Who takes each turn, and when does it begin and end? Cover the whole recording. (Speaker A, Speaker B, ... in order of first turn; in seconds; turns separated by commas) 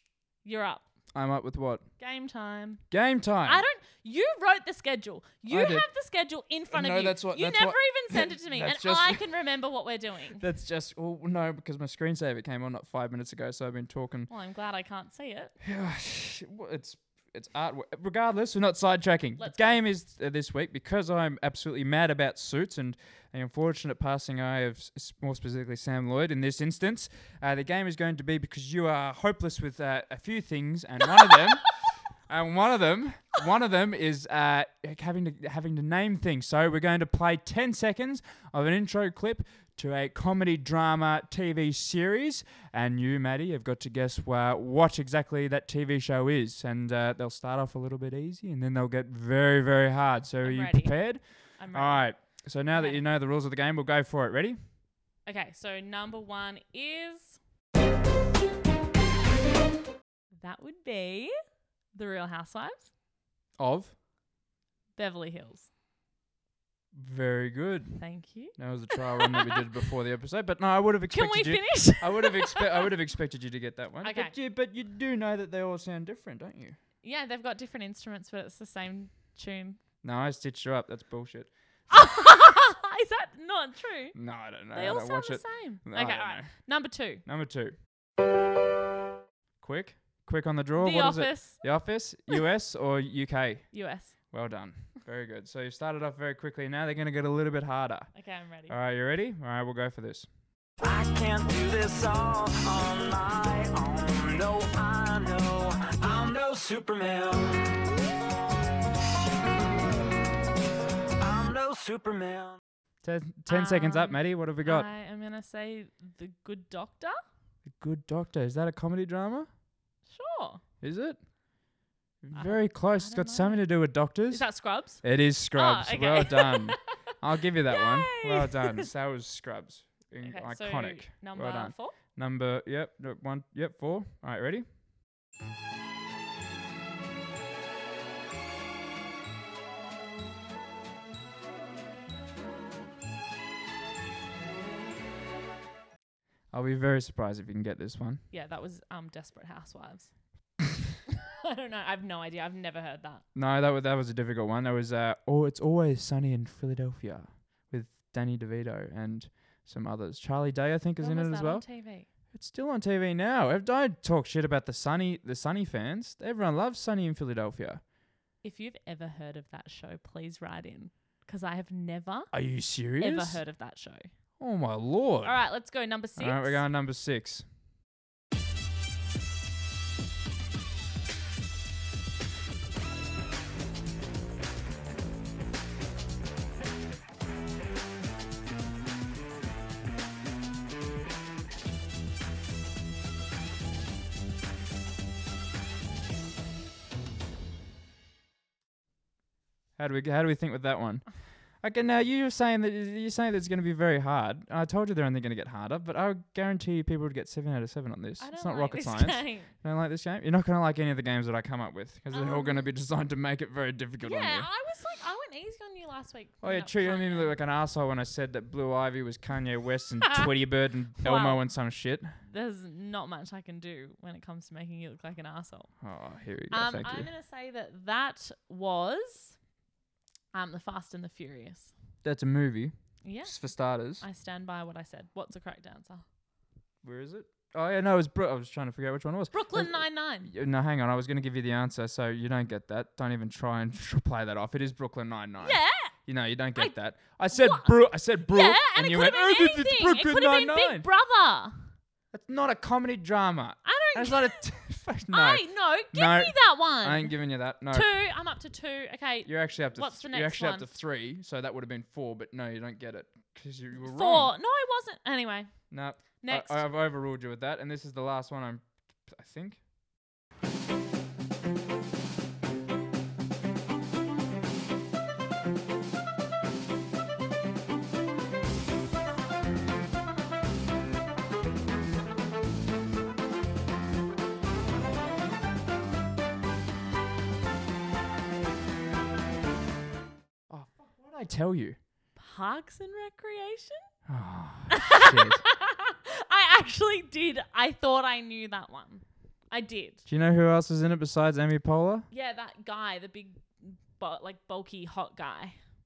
Speaker A: 0.4-0.8, Speaker B: 1.1-1.9, Speaker A: 2.0-2.9, Speaker B: 2.9-3.6, Speaker A: 3.4-10.4, Speaker B: 5.5-5.9, Speaker B: 6.7-9.2, Speaker B: 10.4-14.3, Speaker A: 14.3-15.5, Speaker B: 15.6-54.6, Speaker A: 19.4-19.8, Speaker A: 50.4-53.0, Speaker A: 55.2-57.4, Speaker A: 60.4-61.3, Speaker A: 61.9-62.9, Speaker B: 63.6-64.0, Speaker A: 65.0-65.7, Speaker B: 66.9-76.8, Speaker A: 68.0-69.6, Speaker A: 71.1-72.8, Speaker A: 74.0-74.3, Speaker A: 77.0-79.8, Speaker B: 80.0-81.5, Speaker A: 81.9-84.2, Speaker B: 84.2-86.7, Speaker A: 84.7-87.2, Speaker B: 87.2-87.8, Speaker B: 89.6-98.1, Speaker A: 90.8-91.7, Speaker A: 93.7-94.2, Speaker A: 98.1-98.8, Speaker B: 98.7-100.3, Speaker C: 100.8-107.8, Speaker C: 111.2-112.6, Speaker B: 113.0-114.9, Speaker A: 113.5-117.2, Speaker B: 117.7-119.5, Speaker A: 120.1-120.6, Speaker B: 120.8-121.3, Speaker B: 122.2-134.7, Speaker A: 122.3-123.7, Speaker A: 124.3-126.8, Speaker A: 127.7-128.9, Speaker A: 130.2-132.0, Speaker B: 146.5-148.2, Speaker A: 148.3-150.2, Speaker A: 151.4-153.2, Speaker B: 153.3-167.8, Speaker A: 161.0-162.1, Speaker A: 168.4-172.3, Speaker B: 172.3-173.4, Speaker A: 173.0-174.1, Speaker B: 174.4-175.4, Speaker A: 175.2-176.7, Speaker B: 176.2-177.4, Speaker B: 199.8-214.5, Speaker A: 208.2-209.5, Speaker A: 212.1-212.7, Speaker A: 214.0-217.4, Speaker B: 216.4-222.2, Speaker A: 221.0-221.4, Speaker A: 222.2-225.7, Speaker B: 225.8-227.1, Speaker A: 226.5-229.4, Speaker A: 230.3-231.7, Speaker B: 232.0-234.1, Speaker A: 233.0-233.5, Speaker A: 234.0-236.0, Speaker B: 236.8-250.9, Speaker A: 239.3-240.3, Speaker A: 245.4-245.9, Speaker A: 247.3-247.8, Speaker A: 248.3-251.7, Speaker B: 252.1-257.9, Speaker A: 253.6-254.4, Speaker A: 255.1-260.7, Speaker B: 259.2-264.3, Speaker A: 263.8-265.6, Speaker B: 265.7-269.6, Speaker A: 266.1-266.6, Speaker B: 290.5-291.8, Speaker A: 292.2-293.9, Speaker B: 294.1-295.4, Speaker A: 294.7-300.0, Speaker B: 300.1-302.1, Speaker A: 302.1-305.6